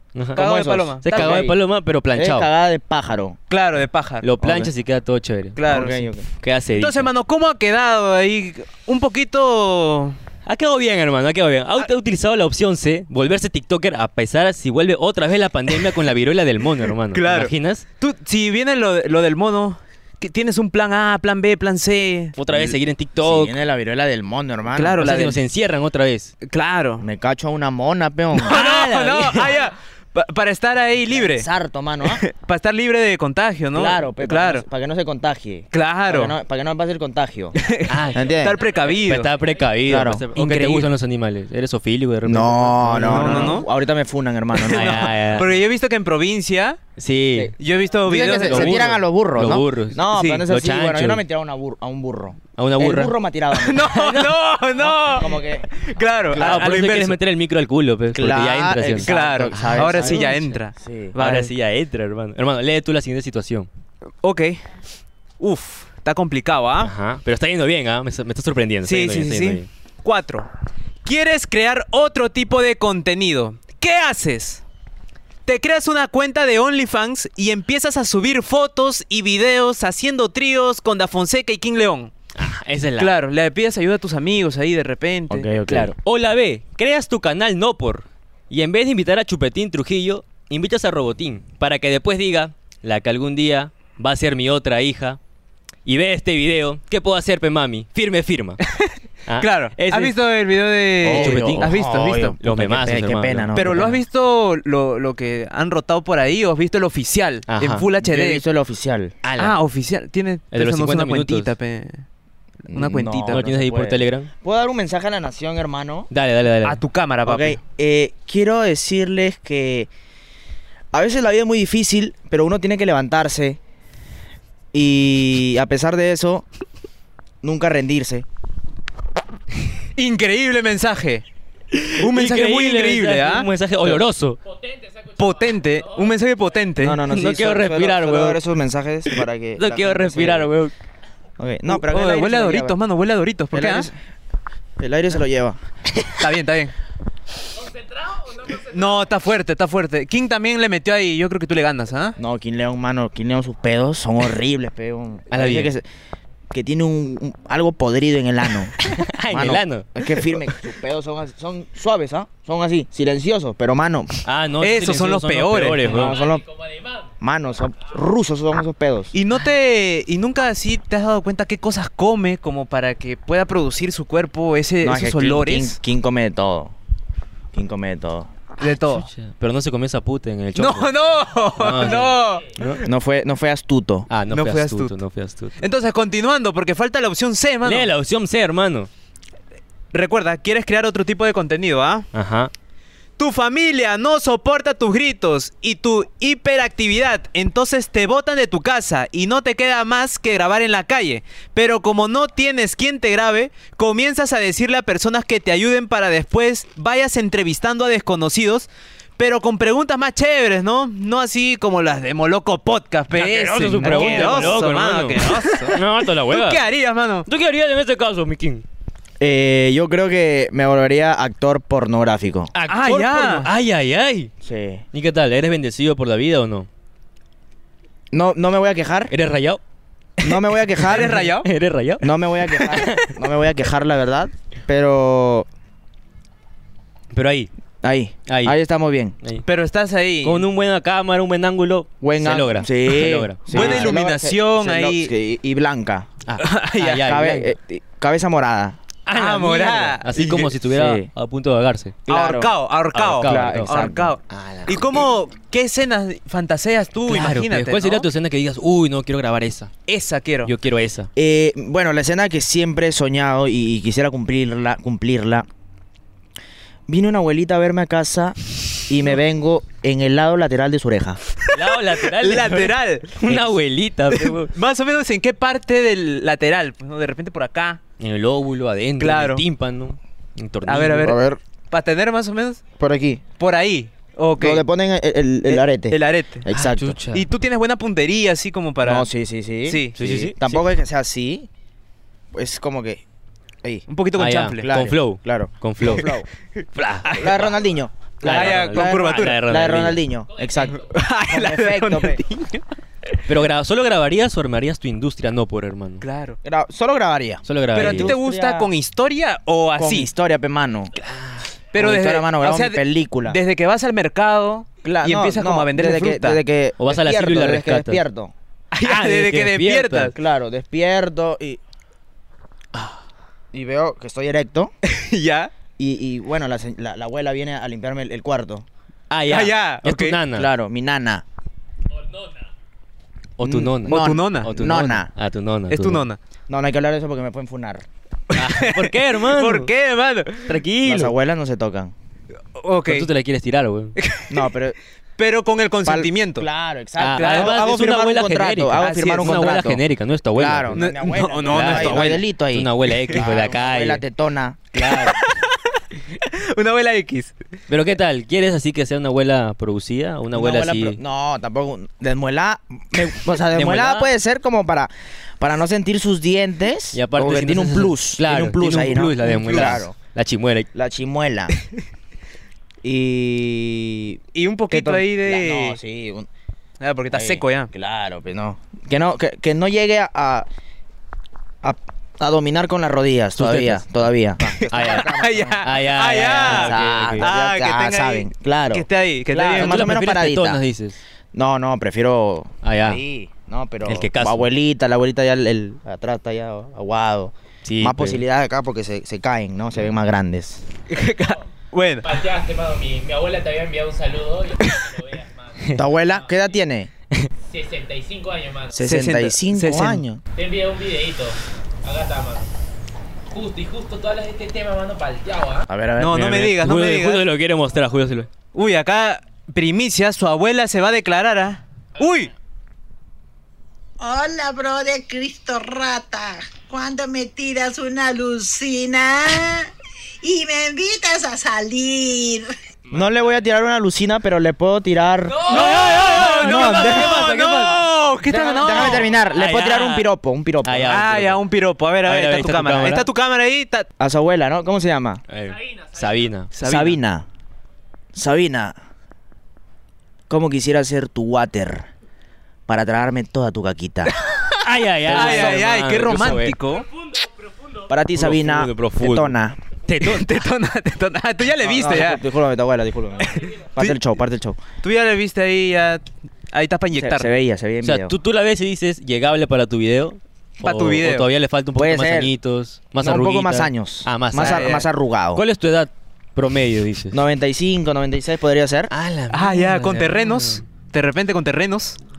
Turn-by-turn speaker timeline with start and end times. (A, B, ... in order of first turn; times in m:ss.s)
0:00.1-0:02.5 A
0:00.4-0:01.5 B
0:00.5-0:01.6 C
0:02.1-0:03.4 C
0:03.5-0:04.3 B
0:04.2-0:05.6 A
0:04.4-0:04.7 C
0:05.6-0:06.1 B
0:05.6-0:06.3 C
0:06.4-0:07.1 A
0:06.8-0:10.2 B
0:10.4-0:17.8 A
0:17.1-0:22.4 B
0:22.4-0:23.5 A
0:22.5-0:25.0 C
0:24.7-0:25.4 B
0:25.0-0:26.3 A
0:26.4-0:27.0 B
0:27.0-0:28.6 C
0:28.4-0:31.5 B
0:28.4-0:29.6 A
0:31.1-0:32.2 C
0:32.0-0:34.6 B
0:33.7-0:37.6 C
0:35.7-0:36.4 B
0:37.6-0:39.3 B
0:37.9-0:43.6 A
0:38.1-0:38.6 C
0:39.8-0:40.3 C
0:40.4-0:40.9 B
0:42.2-0:45.1 C
0:43.0-0:43.7 B
0:44.6-0:46.8 B
0:44.7-0:45.6 A
0:47.0-0:47.5 A
0:47.6-0:48.9 B
0:48.0-0:53.9 C
0:48.4-0:51.2 A
0:50.1-0:50.4 B
0:52.6-0:53.2 A
0:53.5-0:57.2 B
0:53.9-0:54.4 A
0:54.8-0:55.7 C
0:56.4-1:00.5 A
0:56.4-0:56.6 C
0:58.1-1:01.2 C
0:59.0-1:01.5 B
1:01.2-1:03.7 A
1:04.2-1:04.7 B
1:05.4-1:06.9 B
1:06.8-1:09.7 A
1:08.8-1:10.5 B
1:11.0-1:14.6 B
1:15.4-1:22.1 B
1:22.4-1:23.1 A
1:23.0-1:25.5 B
1:25.3-1:25.9 C
1:25.7-1:35.2 A
1:35.9-1:38.6 A
1:38.7-1:42.4 B
1:39.3-1:40.2 A
1:41.0-1:44.0 C
1:41.0-1:41.8 A
1:42.4-1:43.9 A
1:43.6-1:48.4 B
1:47.5-1:47.8 A
1:48.0-1:49.1 C
1:49.2-1:49.6 A
1:49.4-1:52.0 B
1:50.5-1:51.5 A
1:52.7-1:56.1 C
1:52.7-1:53.5 B
1:53.2-1:54.3 A
1:56.1-1:56.8 A
1:56.6-1:57.6 B
1:57.3-1:59.9 C
2:00.9-2:03.6 C
2:04.7-2:06.4 C
2:07.4-2:08.2 C
2:10.0-2:11.2 B
2:11.7-2:14.4 A
2:12.0-2:13.5 B
2:14.5-2:16.1 D
2:15.2-2:17.0 B
2:16.8-2:20.5 C
2:17.0-2:18.4 A
2:19.6-2:20.7 A
2:21.4-2:22.8 C
2:21.7-2:23.9 B
2:23.5-2:24.0 C
2:24.8-2:25.6 C
2:26.2-2:26.7 B
2:27.6-2:29.0 D
2:28.7-2:32.2 B
2:32.2-2:35.8 C
2:35.3-2:35.7 A
2:36.5-2:44.1 C
2:38.8-2:40.4 A
2:44.2-2:46.2 A
2:44.6-2:46.1 B
2:45.8-2:46.4 C
2:46.0-2:47.1 D
2:47.2-2:49.1 C
2:49.1-2:55.8 B
2:54.8-2:56.7 C
2:57.5-2:58.3 C
2:58.6-2:59.1 B
2:58.9-3:00.9 A
3:00.6-3:02.6 B
3:01.6-3:02.8 A
3:02.8-3:04.1 C
3:04.1-3:05.6 A
3:04.3-3:05.0 B
3:05.6-3:07.9 B
3:07.6-3:08.9 A
3:09.9-3:12.1 B
3:12.1-3:12.5 A
3:13.2-3:37.3 B
3:33.2-3:36.6 A
3:33.8-3:34.6 C
3:37.2-3:38.6 A
3:39.2-3:42.5 C
3:42.5-3:44.3 A
3:42.7-3:43.5 B
3:44.4-3:44.8 C
3:44.9-3:46.7 A
3:48.1-3:49.1 C
3:49.1-3:49.6 A
3:50.2-3:51.3 C
3:50.8-3:51.5 B
3:50.9-3:53.2 A
3:52.0-3:55.5 C
3:52.6-3:52.9 B
3:57.1-3:57.5 A
3:57.8-3:59.1 C
3:58.3-3:58.6 A
3:59.4-4:00.4 B
4:00.2-4:03.9 A
4:02.0-4:06.1 C
4:03.5-4:05.1 B
4:06.3-4:07.5 A
4:06.4-4:07.1 B
4:07.0-4:08.8 C
4:09.1-4:10.5 B
4:09.1-4:12.0 A
4:10.6-4:11.1 C
4:12.1-4:12.5 C
4:12.1-4:18.1 B
4:12.9-4:13.7 A
4:13.2-4:14.1 C
4:14.3-4:15.0 A
4:17.1-4:19.7 A
4:19.9-4:20.5 B
4:20.4-4:21.1 A
4:21.2-4:25.4 C
4:26.9-4:31.2 C
4:31.5-4:34.5 A
4:31.5-4:33.4 B
4:34.1-4:37.8 B
4:38.0-4:41.2 A
4:39.0-4:39.4 B
4:40.6-4:41.2 B
4:41.0-4:41.4 C
4:41.7-4:42.6 B
4:42.8-4:43.2 C
4:43.4-4:44.6 B
4:44.4-4:47.0 C
4:45.5-4:46.4 B
4:46.5-4:47.3 A
4:47.1-4:49.1 B
4:48.8-4:51.5 C
4:49.6-4:50.0 B
4:50.0-4:50.6 A
4:52.3-4:53.0 C
4:53.9-4:54.8 B
4:54.2-4:56.1 A
4:54.6-4:56.3 C
4:56.8-4:57.2 A
4:57.0-4:57.6 B
4:57.1-5:02.2 C
4:58.2-5:00.0 A
4:58.2-4:59.4 B
5:00.3-5:00.9 D
5:00.6-5:02.6 B
5:03.3-5:06.0 A
5:06.0-5:06.4 B
5:06.4-5:08.7 C
5:07.4-5:08.1 A
5:07.8-5:10.1 B
5:09.8-5:10.9 C
5:11.0-5:11.4 A
5:11.7-5:16.4 B
5:11.8-5:13.4 C
5:14.8-5:18.3 C
5:16.8-5:18.0 A
5:18.7-5:20.1 B
5:18.8-5:20.1 A
5:20.1-5:21.6 C
5:23.5-5:24.7 C
5:24.8-5:25.5 B
5:25.8-5:28.6 C
5:29.1-5:30.5 A
5:29.3-5:30.2 B
5:30.3-5:31.2 C
5:32.0-5:32.4 D
5:33.4-5:36.1 A
5:33.4-5:35.1 C
5:33.8-5:34.5 B
5:35.7-5:36.2 B
5:36.5-5:37.8 C
5:38.3-5:40.6 B
5:38.4-5:39.7 A
5:40.5-5:41.1 A
5:40.8-5:41.9 C
5:42.6-5:43.1 B
5:42.9-5:44.0 A
5:44.0-5:44.4 B
5:44.3-5:44.8 C
5:45.2-5:46.4 B
5:45.8-5:49.8 C
5:47.0-5:50.9 A
5:47.1-5:47.7 B
5:48.8-5:49.4 B
5:50.4-5:54.6 C
5:50.7-5:52.3 B
5:51.4-5:54.0 A
5:54.7-5:55.2 A
5:54.8-5:57.4 B
5:57.7-6:01.0 A
6:00.3-6:10.0 C
6:03.5-6:04.1 A
6:06.9-6:10.7 A
6:10.7-6:11.6 C
6:12.8-6:14.2 C
6:14.3-6:15.8 B
6:14.7-6:16.3 C
6:16.8-6:17.7 B
6:17.1-6:20.5 C
6:21.6-6:25.7 C
6:23.4-6:23.9 A
6:24.6-6:29.9 B
6:24.7-6:27.3 A
6:26.4-6:30.6 C
6:29.6-6:31.0 A
6:31.3-6:40.6 C
6:32.6-6:33.0 A
6:33.8-6:34.4 A
6:37.6-6:38.2 A
6:40.9-6:42.1 B
6:42.0-6:46.3 D
6:45.8-6:46.9 C
6:47.5-6:48.8 D
6:48.7-6:50.2 C
6:48.8-6:50.0 B
6:50.4-6:52.5 D
6:53.3-6:55.7 D
6:55.7-6:56.6 C
6:56.0-6:57.3 B
6:56.4-6:58.3 A
6:58.5-7:02.3 B
7:04.0-7:09.7 E
7:10.2-7:12.5 E
7:12.9-7:15.6 C
7:15.4-7:17.8 A
7:15.5-7:19.1 B
7:16.2-7:17.2 C
7:18.3-7:20.9 C
7:18.6-7:20.1 A
7:20.6-7:21.4 A
7:20.9-7:23.9 B
7:22.0-7:23.1 A
7:24.0-7:25.2 C
7:25.3-7:26.5 A
7:26.5-7:27.0 B
7:26.6-7:27.3 C
7:28.1-7:28.8 C
7:30.3-7:31.9 C
7:32.7-7:34.1 C
7:34.3-7:36.9 B
7:34.6-7:36.6 A
7:35.1-7:35.5 C
7:37.9-7:39.6 C
7:38.1-7:39.4 A
7:39.9-7:40.4 A
7:40.0-7:42.2 B
7:41.6-7:44.6 C
7:43.2-7:44.0 B
7:44.8-7:47.3 B
7:46.9-7:48.1 C
7:47.8-7:57.2 A
7:50.6-7:51.3 B
7:51.8-7:52.3 C
7:53.0-7:55.4 C
7:54.4-7:54.9 B
7:57.1-7:58.9 C
7:58.9-8:00.6 A
7:59.3-8:02.0 B